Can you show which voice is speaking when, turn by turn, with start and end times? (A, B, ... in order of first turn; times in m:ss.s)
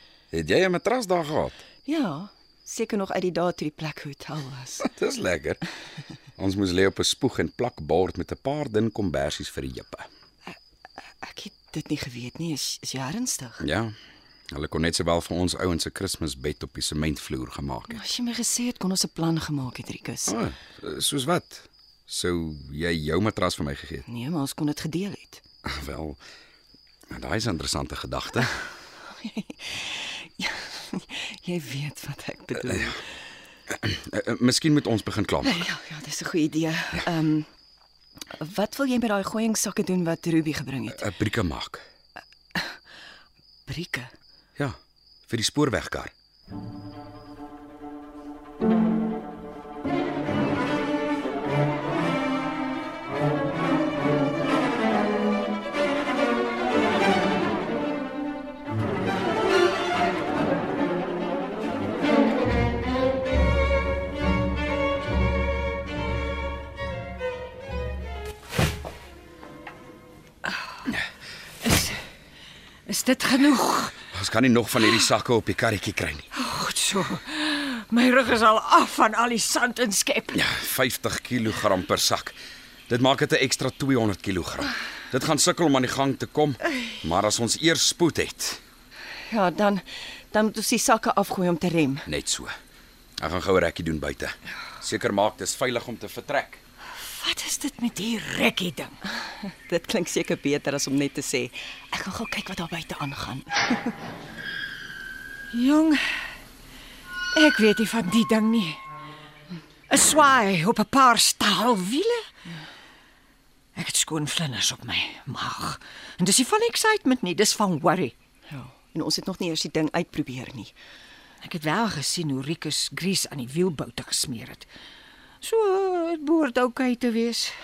0:00.3-0:01.6 A
0:01.8-0:04.8 B
0:04.8-0:05.6 A
0:06.4-0:10.1 A
0:11.2-0:13.6 B
0:13.6-0:13.9 A
0:14.5-0:18.0 A
0:17.9-0:20.3 B
0:20.3-0:24.0 A
0:24.1-0:25.4 B
0:25.6-0:26.2 A
0:27.1-0:28.6 A
0:29.1-0:33.0 B
0:33.8-0:35.7 A
0:35.4-0:37.5 B
0:38.3-0:41.0 B
0:41.0-0:41.8 A
0:43.7-0:44.1 B
0:45.3-0:46.1 A
1:11.6-1:12.0 C
1:12.9-1:14.0 C
1:14.1-1:16.3 A
1:16.3-1:20.4 C
1:20.3-1:22.4 A
1:22.9-1:28.6 A
1:29.3-1:32.0 B
1:32.0-1:32.5 A
1:33.2-1:36.6 A
1:37.0-1:39.0 C
1:39.5-1:43.9 B
1:45.5-1:46.2 C
1:47.3-1:48.8 C
1:49.9-1:52.2 C
1:53.8-1:58.1 C
1:58.5-2:00.8 B
2:01.4-2:04.7 C
2:05.4-2:07.5 C